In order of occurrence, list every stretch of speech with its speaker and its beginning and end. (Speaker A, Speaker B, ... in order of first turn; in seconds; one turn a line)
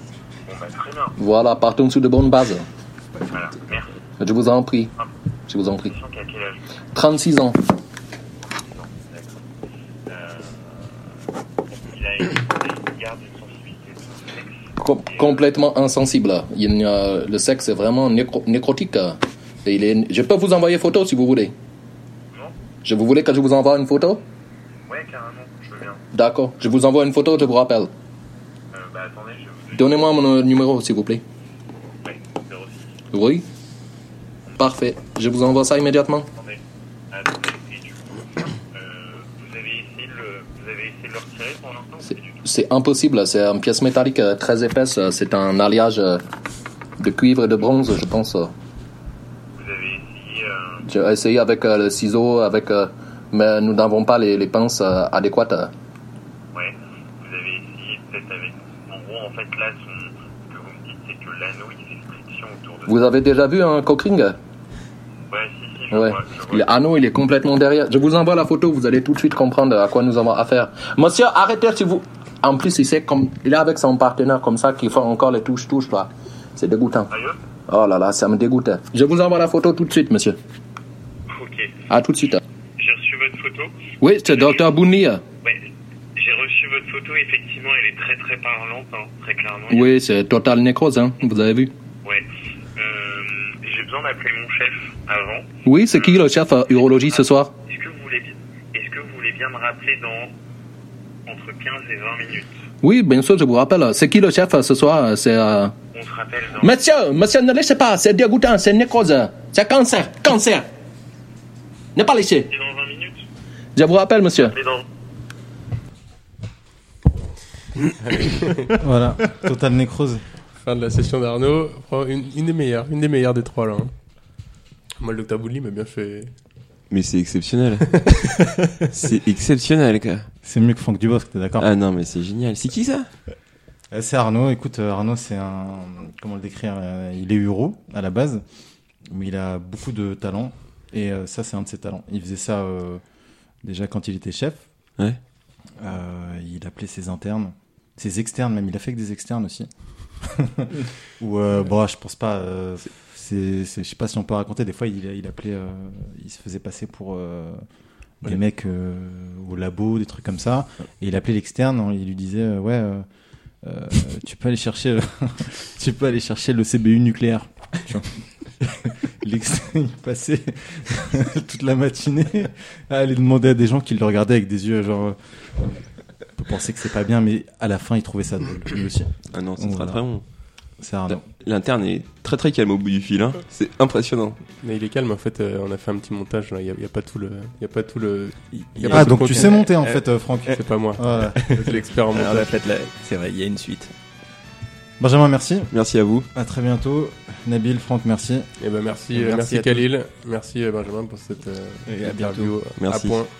Speaker A: 0.4-1.1
Speaker B: 1.2-2.6
Speaker A: 3.3-4.0
Speaker B: 4.2-4.9
Speaker B: 5.5-5.9
Speaker A: 5.8-6.8
Speaker B: 6.9-7.6
Speaker A: 8.4-9.4
Speaker A: 10.1-11.1
Speaker A: 11.7-15.4
Speaker B: 14.8-21.5
Speaker A: 22.3-22.6
Speaker B: 22.8-24.2
Speaker A: 24.9-26.0
Speaker B: 26.1-27.9
Speaker A: 28.7-30.0
Speaker B: 29.7-31.2
Speaker A: 32.0-33.0
Speaker B: 33.1-33.4
Speaker B: 34.6-36.3
Speaker A: 37.1-42.4
Speaker B: 42.0-46.2
Speaker B: 47.0-48.5
Speaker A: 49.5-50.8
Speaker B: 50.8-55.7
Speaker A: 56.5-63.0
Speaker B: 62.9-64.4
Speaker A: 65.3-66.7
Speaker B: 65.9-77.1
Speaker A: 77.1-77.4
Speaker B: 77.7-80.4
Speaker A: 81.3-81.8
Speaker B: 81.9-82.4
Speaker A: 82.8-83.8
Speaker B: 84.0-85.2
Speaker A: 84.3-84.7
Speaker A: 85.4-89.9
Speaker B: 89.7-91.7
Speaker A: 92.0-100.3
Speaker B: 95.6-97.5
Speaker A: 101.2-102.6
Speaker B: 102.8-105.7
Speaker A: 105.9-106.8
Speaker B: 106.6-110.7
Speaker B: 111.9-112.5
Speaker A: 112.5-113.2
Speaker B: 113.8-114.5
Speaker A: 114.4-114.8
Speaker C: 118.0-118.7
Speaker D: 118.7-120.3
Speaker C: 120.5-123.9
Speaker C: 125.0-126.3
Speaker E: 126.9-130.3
Speaker D: 130.4-131.7
Speaker E: 131.6-133.1
Speaker D: 133.9-138.4
Speaker D: 139.1-143.0
Speaker D: 143.6-144.9
Speaker D: 145.8-157.7
Speaker D: 158.2-163.1
Speaker D: 163.6-180.1
Speaker E: 179.3-180.3
Speaker D: 180.8-181.2
Speaker E: 181.1-184.4
Speaker C: 184.6-189.7
Speaker F: 188.5-193.9
Speaker D: 188.9-191.4
Speaker C: 190.5-192.5
Speaker D: 195.0-195.7
Speaker E: 195.7-196.3
Speaker D: 196.3-198.5
Speaker C: 198.6-203.3
Speaker F: 199.1-199.8
Speaker F: 201.8-202.6
Speaker E: 202.8-203.2